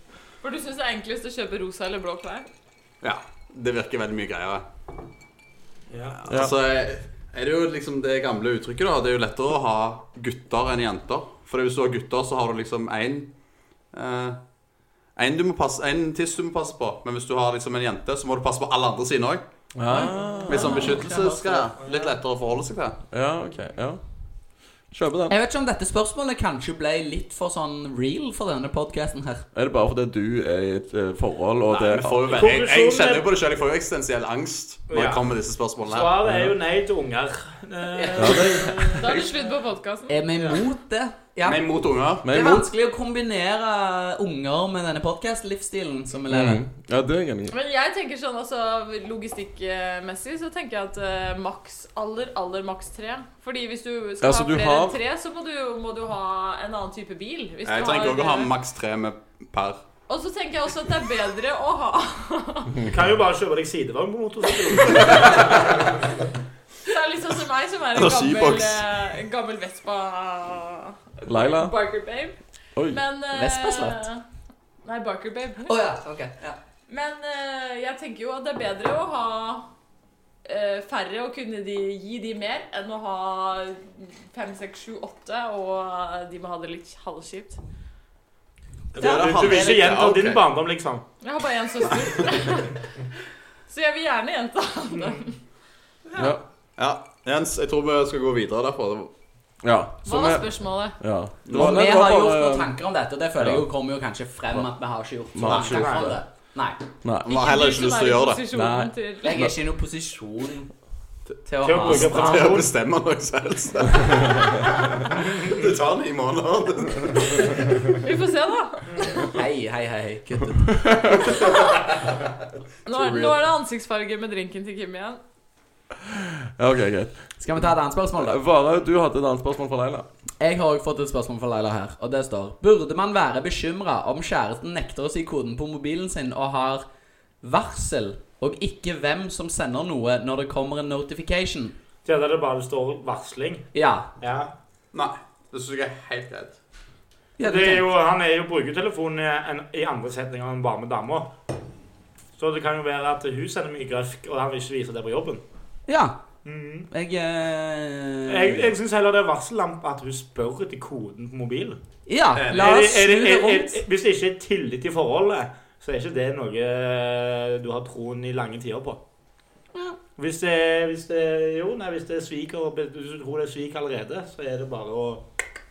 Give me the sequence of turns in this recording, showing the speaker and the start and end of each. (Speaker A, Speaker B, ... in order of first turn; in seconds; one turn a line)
Speaker A: 0.4-2.5
Speaker B: 3.0-4.6
Speaker C: 5.9-6.2
Speaker B: 6.2-13.3
Speaker D: 6.3-6.5
Speaker B: 13.9-14.4
Speaker B: 15.2-19.4
Speaker D: 19.7-20.9
Speaker E: 19.9-21.6
Speaker B: 20.5-23.0
Speaker A: 20.6-20.9
Speaker C: 21.8-22.1
Speaker D: 23.1-24.0
Speaker D: 24.9-25.3
Speaker E: 25.3-29.4
Speaker D: 29.5-32.4
Speaker B: 31.7-36.2
Speaker C: 32.3-33.3
Speaker C: 34.9-35.2
Speaker C: 35.8-38.7
Speaker D: 36.3-36.5
Speaker E: 38.0-38.5
Speaker D: 38.1-39.3
Speaker A: 38.7-40.1
Speaker E: 40.1-46.6
Speaker C: 40.4-40.6
Speaker B: 41.4-42.2
Speaker D: 42.2-42.7
Speaker D: 46.3-47.5
Speaker A: 47.5-58.5
Speaker D: 54.2-55.0
Speaker B: 57.6-59.8
Speaker A: 60.1-62.8
Speaker C: 62.8-65.9
Speaker A: 64.8-65.5
Speaker A: 66.8-72.3
Speaker B: 68.0-68.8
Speaker D: 71.2-71.7
Speaker A: 72.9-74.2
Speaker E: 73.3-74.1
Speaker A: 74.8-75.8
Speaker E: 75.7-76.6
Speaker A: 76.9-79.7
Speaker A: 80.4-87.6
Speaker B: 88.9-90.4
Speaker C: 88.9-91.0
Speaker E: 89.3-89.8
Speaker A: 91.2-92.8
Speaker A: 93.7-95.4
Speaker D: 96.2-96.4
Speaker B: 96.8-99.1
Speaker D: 99.6-102.7
Speaker A: 100.0-101.0
Speaker B: 101.5-101.8
Speaker E: 101.5-106.8
Speaker D: 103.4-103.6
Speaker D: 105.3-106.2
Speaker C: 105.5-106.2
Speaker D: 107.0-107.3
Speaker B: 107.2-108.4
Speaker A: 107.3-109.4
Speaker D: 108.5-109.5
Speaker E: 109.2-110.7
Speaker E: 111.4-112.7
Speaker C: 111.6-112.7
Speaker B: 111.7-117.6
Speaker A: 118.0-119.3
Speaker C: 118.9-119.2
Speaker E: 119.3-120.7
Speaker D: 120.7-121.5
Speaker A: 121.3-121.6
Speaker A: 122.8-125.2
Speaker D: 125.9-130.1
Speaker E: 127.4-128.4
Speaker E: 130.4-136.8
Speaker E: 137.4-141.7
Speaker C: 142.0-143.6
Speaker E: 143.7-144.1
Speaker C: 144.2-144.5
Speaker B: 144.9-146.6
Speaker E: 147.4-147.9
Speaker C: 147.4-151.3
Speaker C: 152.4-155.4
Speaker E: 155.9-156.2
Speaker C: 156.4-156.9
Speaker E: 156.9-158.6
Speaker C: 158.3-161.8
Speaker E: 162.1-163.8
Speaker B: 162.3-162.7
Speaker C: 162.5-169.0
Speaker C: 170.2-175.2